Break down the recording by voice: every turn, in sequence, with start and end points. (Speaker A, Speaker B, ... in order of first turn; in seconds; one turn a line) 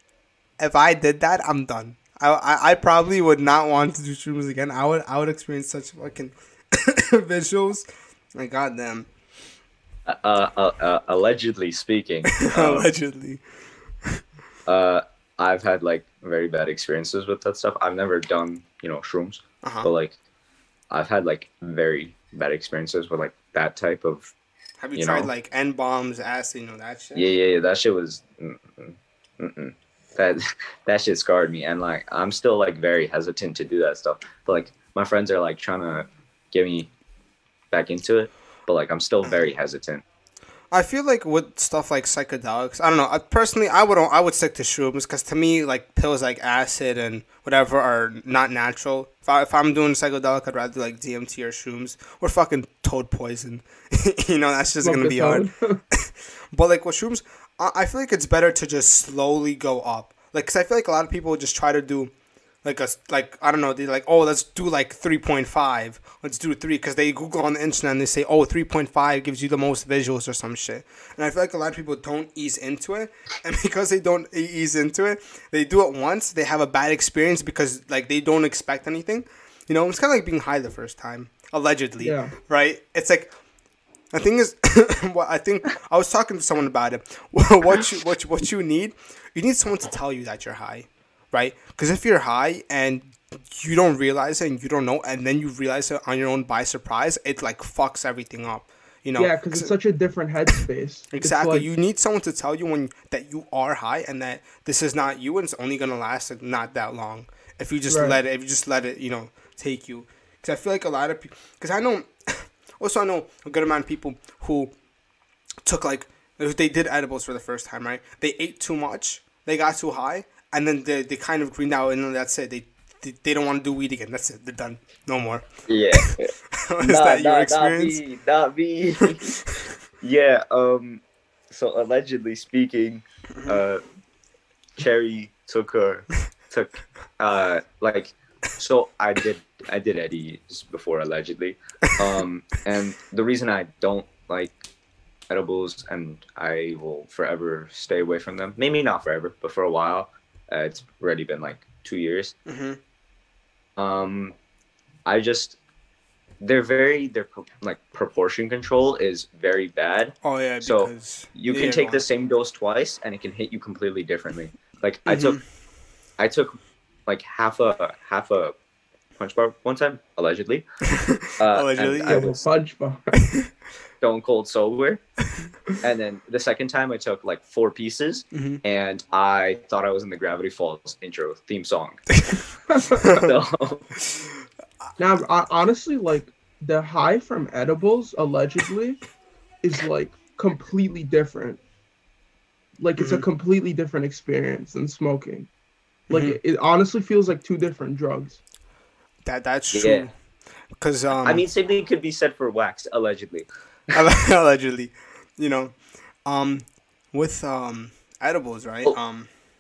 Speaker A: 0.6-9.1
Speaker B: 10.1-12.9
Speaker A: 12.3-13.4
Speaker B: 14.7-20.1
Speaker A: 19.6-19.9
Speaker B: 20.9-24.3
Speaker A: 24.8-27.3
Speaker B: 25.0-25.3
Speaker B: 27.1-36.9
Speaker B: 37.7-40.0
Speaker A: 39.2-39.5
Speaker A: 40.7-62.1
Speaker C: 54.8-55.8
Speaker A: 62.6-83.3
Speaker C: 82.0-82.3
Speaker A: 84.1-99.7
Speaker C: 99.2-101.7
Speaker A: 101.1-114.7
Speaker C: 107.9-108.2
Speaker A: 115.6-125.5
Speaker B: 125.7-129.3
Speaker A: 126.5-128.0
Speaker A: 129.1-129.7
Speaker B: 130.0-133.8
Speaker B: 134.8-144.6
Speaker B: 145.3-152.3
Speaker A: 152.5-152.8
Speaker B: 153.8-154.3
Speaker B: 155.1-155.6
Speaker B: 156.4-165.4
Speaker A: 160.2-162.0
Speaker A: 165.1-165.4
Speaker B: 166.2-168.6
Speaker B: 169.2-170.7
Speaker A: 170.9-172.4
Speaker B: 171.4-172.3
Speaker C: 172.0-173.2
Speaker B: 174.0-175.0
Speaker B: 175.8-182.0
Speaker A: 178.3-178.6
Speaker C: 182.7-183.0
Speaker A: 183.0-183.3
Speaker B: 183.0-183.9
Speaker C: 185.0-189.0
Speaker C: 189.6-191.6
Speaker C: 192.8-195.5
Speaker A: 193.0-193.2
Speaker A: 196.1-196.4
Speaker C: 196.1-198.4
Speaker A: 199.2-200.1
Speaker B: 199.7-200.1
Speaker A: 200.8-201.4
Speaker B: 201.1-203.5
Speaker A: 203.9-209.3